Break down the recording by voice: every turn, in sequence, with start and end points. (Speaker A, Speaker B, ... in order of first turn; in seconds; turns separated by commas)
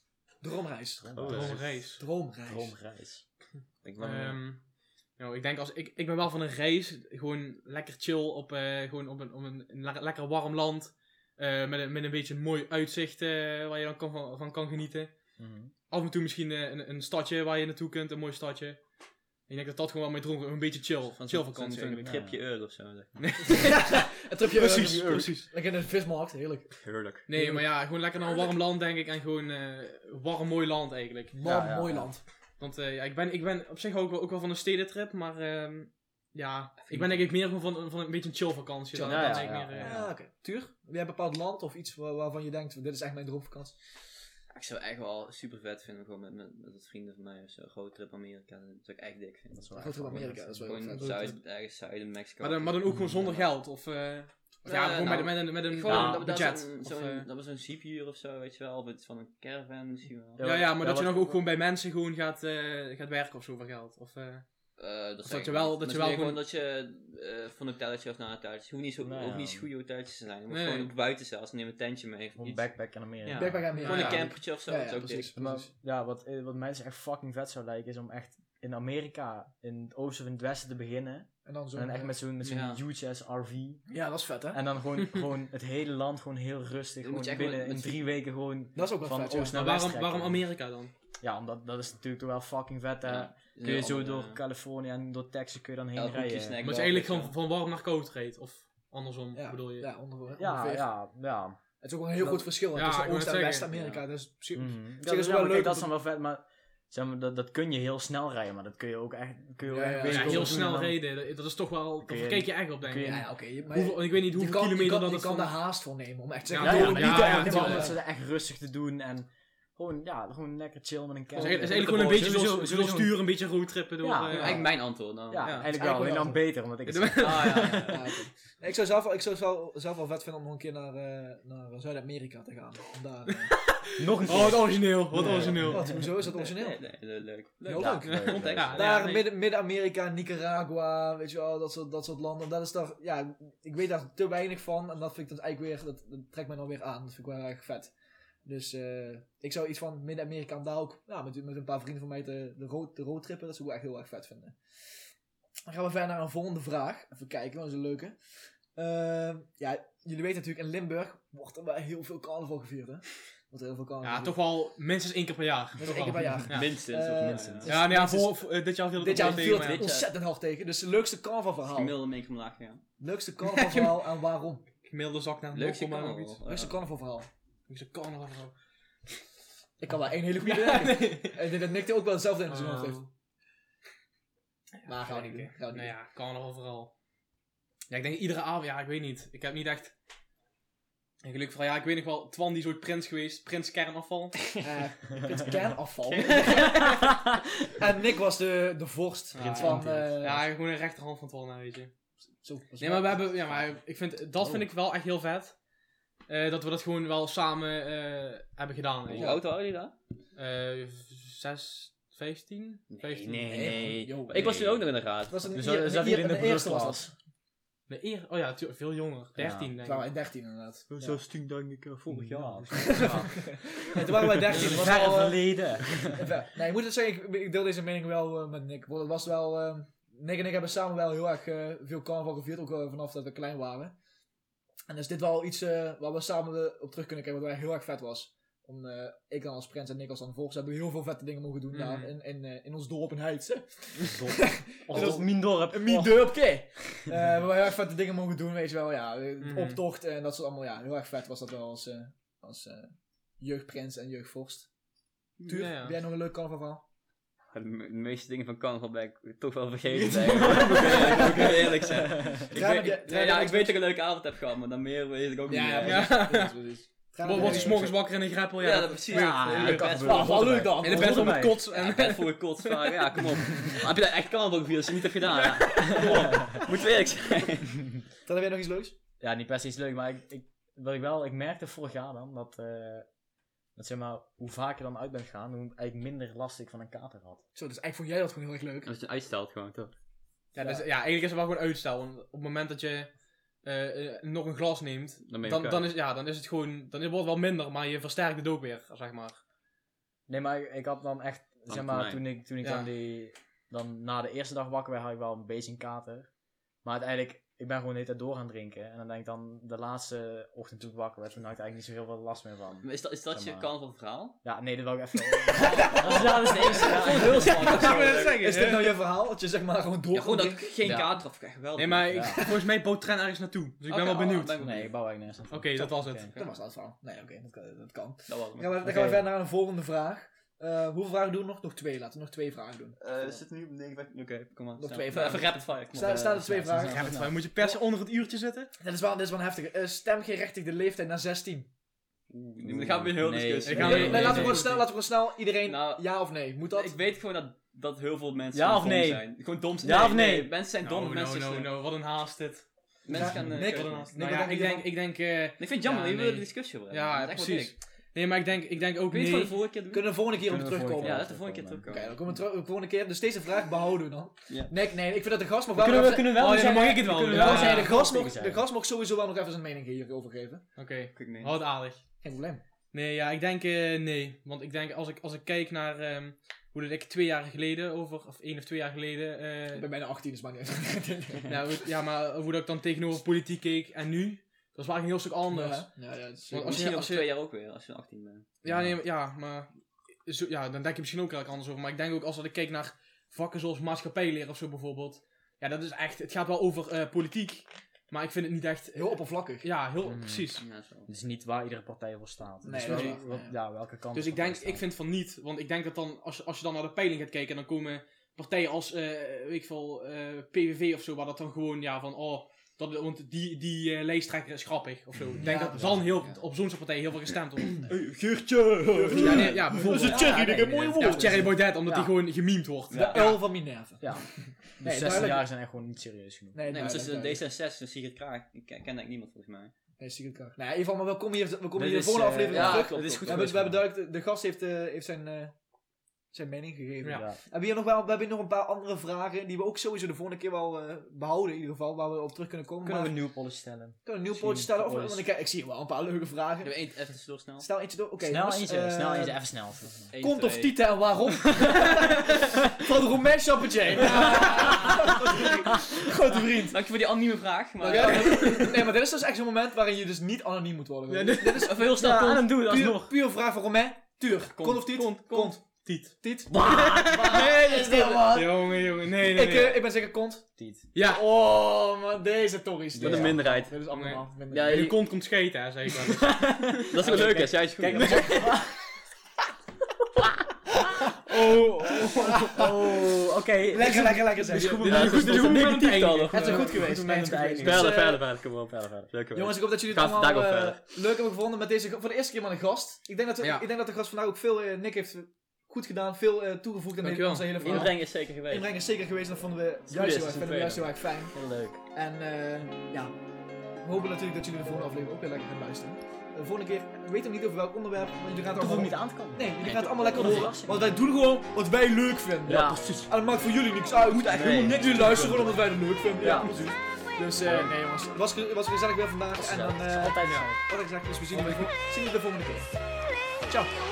Speaker A: 0.4-2.8, Speaker B: 1.0-1.6, Speaker C: 1.1-3.2, Speaker D: 1.3-2.0, Speaker B: 3.8-4.5, Speaker D: 4.0-22.2, Speaker C: 15.4-15.7, Speaker B: 21.2-23.7, Speaker C: 22.0-22.4, Speaker D: 23.2-25.5, Speaker A: 23.6-27.7, Speaker B: 26.8-27.2, Speaker D: 27.2-31.3, Speaker A: 31.3-32.2, Speaker C: 31.4-32.2, Speaker D: 32.5-40.0, Speaker B: 36.8-37.3, Speaker A: 38.9-43.8, Speaker C: 39.0-40.1, Speaker B: 44.5-53.4, Speaker C: 49.5-50.9, Speaker A: 49.8-51.3, Speaker D: 51.0-51.4, Speaker D: 52.4-57.3, Speaker C: 52.9-53.4, Speaker A: 54.6-55.2, Speaker B: 54.6-60.4, Speaker C: 55.8-56.3, Speaker C: 60.4-61.4, Speaker D: 60.4-66.4, Speaker B: 64.8-75.3, Speaker C: 69.0-69.7, Speaker D: 70.5-70.9, Speaker C: 72.4-73.8, Speaker A: 73.3-75.7, Speaker D: 73.8-74.3, Speaker C: 75.3-90.5, Speaker A: 81.4-82.2, Speaker B: 82.4-82.8, Speaker A: 83.9-84.6, Speaker B: 87.0-88.0, Speaker A: 88.7-89.6, Speaker D: 89.5-90.9, Speaker C: 91.2-96.6, Speaker B: 93.0-94.4, Speaker B: 95.9-97.3, Speaker D: 96.6-99.9, Speaker A: 99.3-101.0, Speaker C: 100.3-101.6, Speaker A: 101.8-105.9, Speaker D: 102.6-103.7, Speaker B: 103.7-104.0, Speaker C: 104.5-111.0, Speaker A: 109.6-110.7, Speaker D: 110.0-115.5, Speaker C: 112.0-113.3, Speaker A: 113.0-118.0, Speaker D: 116.5-118.0, Speaker C: 116.6-123.2, Speaker A: 121.3-122.2, Speaker D: 121.3-124.7, Speaker C: 124.0-127.9, Speaker B: 124.3-125.7, Speaker A: 124.4-124.6, Speaker D: 125.4-125.7, Speaker A: 125.7-126.6, Speaker D: 126.8-128.1, Speaker B: 127.2-128.0, Speaker A: 127.8-133.6, Speaker D: 133.5-136.0, Speaker C: 134.0-136.1, Speaker A: 135.2-136.8, Speaker B: 136.2-139.0, Speaker A: 137.6-154.6, Speaker C: 137.7-138.8, Speaker D: 138.0-139.3, Speaker A: 155.7-158.2, Speaker A: 158.7-164.4, Speaker D: 164.0-166.7, Speaker A: 165.8-172.0, Speaker B: 166.5-167.8, Speaker C: 167.2-167.6, Speaker D: 167.7-169.8, Speaker B: 169.1-170.1, Speaker B: 171.7-172.8, Speaker A: 173.0-174.7, Speaker D: 173.4-174.0, Speaker D: 174.8-176.4, Speaker B: 175.5-176.8, Speaker A: 176.4-177.3, Speaker D: 177.7-178.5, Speaker A: 179.8-183.1, Speaker D: 180.4-181.5, Speaker D: 182.5-183.1, Speaker D: 184.8-186.9, Speaker A: 184.8-185.9, Speaker D: 187.9-189.9, Speaker D: 191.2-194.5, Speaker A: 194.6-200.4, Speaker B: 196.0-196.7, Speaker D: 199.3-201.9, Speaker C: 199.4-200.2, Speaker A: 202.4-203.7, Speaker D: 202.8-205.6, Speaker D: 206.3-209.5, Speaker B: 209.1-209.9, Speaker A: 209.2-209.4, Speaker D: 210.3-213.8, Speaker B: 212.9-215.6, Speaker A: 213.5-214.7, Speaker C: 214.3-214.8, Speaker A: 215.3-217.1, Speaker C: 215.5-217.1, Speaker D: 217.9-220.1, Speaker C: 219.4-219.7, Speaker A: 219.8-221.2, Speaker B: 220.9-223.1, Speaker C: 221.0-221.3, Speaker C: 222.1-223.5, Speaker A: 222.7-233.9, Speaker D: 223.0-223.2, Speaker C: 224.3-226.3, Speaker A: 234.9-254.7, Speaker D: 241.7-242.1, Speaker C: 244.2-246.4, Speaker D: 249.4-249.8, Speaker A: 255.4-256.8, Speaker D: 255.5-256.0, Speaker B: 257.5-266.2, Speaker C: 260.0-262.4, Speaker A: 260.1-261.5, Speaker D: 260.6-261.3, Speaker A: 262.5-263.8, Speaker A: 265.5-267.9, Speaker D: 265.8-270.2, Speaker B: 267.3-267.9, Speaker C: 267.4-267.8, Speaker B: 268.6-270.8, Speaker C: 269.1-271.6, Speaker A: 269.8-271.4, Speaker D: 270.8-273.0, Speaker B: 271.5-277.7, Speaker D: 275.6-276.4, Speaker A: 278.2-278.9, Speaker C: 279.2-283.1, Speaker C: 283.7-287.4, Speaker A: 287.5-288.9, Speaker B: 288.8-289.9, Speaker D: 290.5-299.4, Speaker A: 290.6-290.9, Speaker B: 295.3-295.9, Speaker C: 300.3-313.7, Speaker B: 301.7-302.2, Speaker D: 302.6-302.9, Speaker B: 312.8-314.4, Speaker C: 314.4-317.8, Speaker A: 315.5-320.7, Speaker B: 315.6-318.4, Speaker D: 317.0-319.0, Speaker B: 320.1-322.2, Speaker C: 320.8-321.2, Speaker D: 321.8-324.6, Speaker C: 322.1-322.5, Speaker B: 323.9-324.9, Speaker C: 324.6-326.3, Speaker D: 325.5-326.4, Speaker A: 326.4-333.4, Speaker B: 328.3-328.9, Speaker C: 328.8-329.3, Speaker B: 333.0-336.4, Speaker A: 334.8-337.8, Speaker C: 335.9-337.4, Speaker D: 336.8-338.7, Speaker A: 338.8-341.7, Speaker B: 342.3-344.9, Speaker C: 342.6-344.6, Speaker D: 343.6-344.8, Speaker A: 343.8-346.9, Speaker B: 345.6-351.7, Speaker C: 348.5-350.5, Speaker D: 350.8-352.7, Speaker B: 353.0-354.1, Speaker A: 353.1-354.9, Speaker D: 353.2-359.6, Speaker B: 355.6-357.7, Speaker B: 359.1-360.2, Speaker A: 359.9-361.3, Speaker C: 360.4-361.8, Speaker B: 361.0-362.4, Speaker A: 361.9-370.7, Speaker C: 365.7-368.6, Speaker D: 366.2-368.0, Speaker D: 370.8-372.1, Speaker B: 371.1-371.6, Speaker A: 372.2-372.6, Speaker D: 372.9-379.9, Speaker A: 379.7-381.6, Speaker D: 381.5-387.3, Speaker A: 385.5-386.9, Speaker B: 386.5-388.5, Speaker D: 388.6-389.7, Speaker C: 388.6-389.0, Speaker D: 390.2-400.6, Speaker A: 398.9-399.7, Speaker C: 400.0-404.8, Speaker B: 400.6-401.1, Speaker A: 402.6-403.5, Speaker D: 402.8-403.2, Speaker D: 404.1-417.9, Speaker A: 415.4-416.0, Speaker C: 415.4-416.2, Speaker A: 417.9-421.6, Speaker D: 419.1-423.4, Speaker C: 419.7-422.2, Speaker B: 422.9-423.3, Speaker A: 422.9-425.5, Speaker C: 424.0-427.0, Speaker A: 426.5-427.4, Speaker B: 426.7-429.7, Speaker A: 430.0-435.5, Speaker C: 431.7-433.9, Speaker B: 432.5-433.6, Speaker A: 436.3-443.3, Speaker C: 437.1-437.4, Speaker C: 442.8-445.3, Speaker A: 444.0-446.8, Speaker B: 446.6-447.7, Speaker A: 447.6-449.4, Speaker C: 448.2-450.1, Speaker B: 450.1-451.0, Speaker A: 450.1-456.9, Speaker D: 453.9-455.2, Speaker B: 454.1-455.7, Speaker B: 456.7-458.6, Speaker A: 457.8-474.9, Speaker D: 457.8-458.8, Speaker D: 461.1-461.8, Speaker B: 461.6-462.5, Speaker C: 462.0-463.1, Speaker B: 464.5-465.5, Speaker D: 465.8-467.4, Speaker C: 466.5-468.1, Speaker B: 467.5-468.2, Speaker D: 468.3-469.9, Speaker C: 470.6-470.9, Speaker D: 470.9-471.2, Speaker C: 472.9-473.5, Speaker B: 473.0-473.8, Speaker D: 473.9-476.9, Speaker B: 474.5-475.0, Speaker C: 476.2-478.8, Speaker B: 476.9-478.4, Speaker D: 481.3-482.5, Speaker A: 482.1-482.7, Speaker C: 482.4-488.0, Speaker A: 483.7-485.3, Speaker D: 484.6-487.8, Speaker B: 484.8-486.7, Speaker A: 486.3-488.2, Speaker B: 487.6-490.8, Speaker C: 488.7-489.1, Speaker A: 489.3-503.2, Speaker D: 493.4-493.6, Speaker D: 497.0-497.9, Speaker B: 497.5-498.7, Speaker B: 499.9-501.0, Speaker C: 501.3-501.8, Speaker A: 503.7-522.8, Speaker C: 508.5-511.0, Speaker B: 510.2-510.5, Speaker C: 512.5-513.1, Speaker B: 512.5-513.1, Speaker B: 514.0-515.8, Speaker C: 516.2-516.8, Speaker D: 516.2-516.7, Speaker C: 517.4-517.8, Speaker C: 519.3-520.6, Speaker D: 520.2-520.5, Speaker D: 521.3-521.7, Speaker A: 523.4-523.7